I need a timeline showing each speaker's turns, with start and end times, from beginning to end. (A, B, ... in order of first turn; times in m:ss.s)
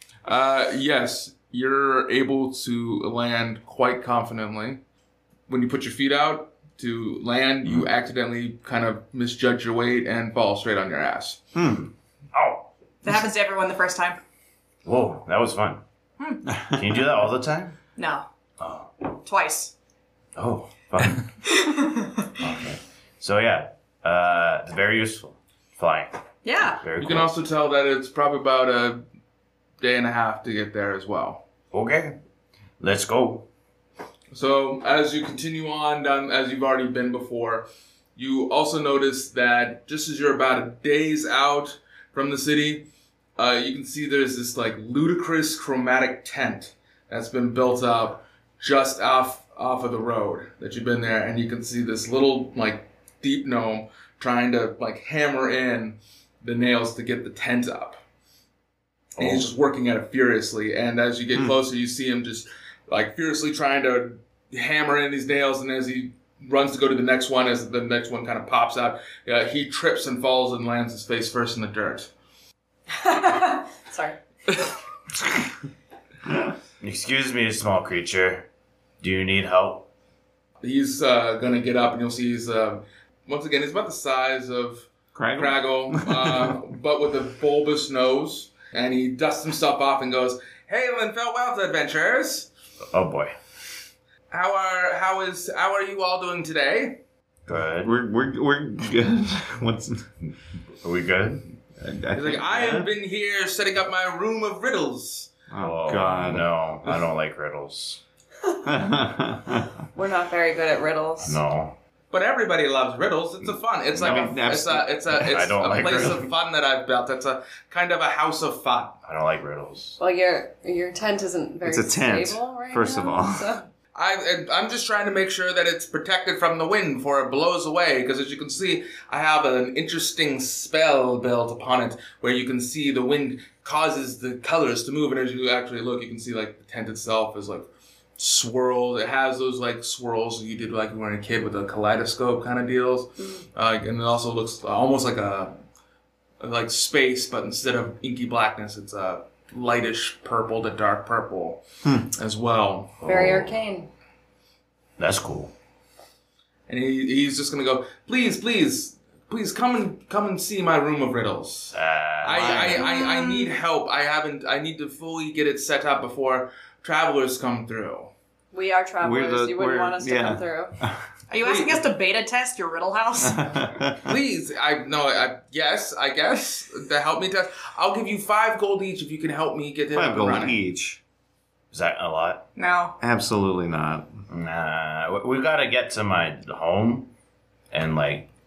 0:00.2-0:04.8 A
0:05.5-0:11.4 A
0:11.6-0:11.8 B
0:11.6-0:12.7 C
0:13.0-0:14.2 D
0:14.8-0:15.8 C
0:16.7-0:17.8 C
0:18.0-0:18.2 D
0:18.6-0:18.9 C
0:19.2-0:19.7 D
0:20.4-0:21.2 C
0:21.4-0:22.3 D
0:22.4-0:27.3 C
0:26.4-0:26.8 D
0:27.0-0:29.0 A
0:29.8-0:31.4 A
0:31.7-0:32.2 C
0:32.8-0:33.5 C
0:34.3-0:58.0 A
0:59.2-0:59.5 C
0:59.2-1:12.1 A
1:13.0-1:14.2 E
1:16.8-1:18.5 C
1:19.0-1:19.9 C
1:20.6-1:32.5 A
1:25.1-1:26.5 B
1:32.9-1:33.3 C
1:34.3-1:37.0 A
1:37.5-1:37.9 C
1:37.8-1:40.0 B
1:40.8-1:41.4 C
1:41.8-1:42.9 B
1:42.1-1:45.3 A
1:45.5-1:46.5 B
1:45.6-1:48.0 C
1:48.6-1:49.7 B
1:49.9-1:51.4 E
1:51.2-1:51.8 C
1:52.1-1:59.0 A
1:54.0-1:54.3 C
1:54.0-1:55.3 B
1:55.2-1:56.3 C
1:59.0-2:00.0 C
2:00.0-2:03.7 E
2:01.6-2:03.6 B
2:03.9-2:25.6 A
2:26.4-2:33.1 A
2:31.8-2:32.1 B
2:33.0-2:33.5 C
2:33.0-2:33.9 E
2:35.0-2:35.5 C
2:36.7-2:48.1 A
2:41.7-2:42.9 C
2:43.0-2:43.4 E
2:48.5-2:50.7 E
2:49.0-2:51.0 B
2:51.3-2:53.5 D
2:51.4-2:51.8 A
2:53.2-2:54.1 B
2:54.0-3:00.6 A
2:59.9-3:01.0 B
3:01.7-3:02.5 C
3:02.6-3:03.0 D
3:03.0-3:04.2 B
3:04.3-3:07.1 C
3:07.7-3:08.3 C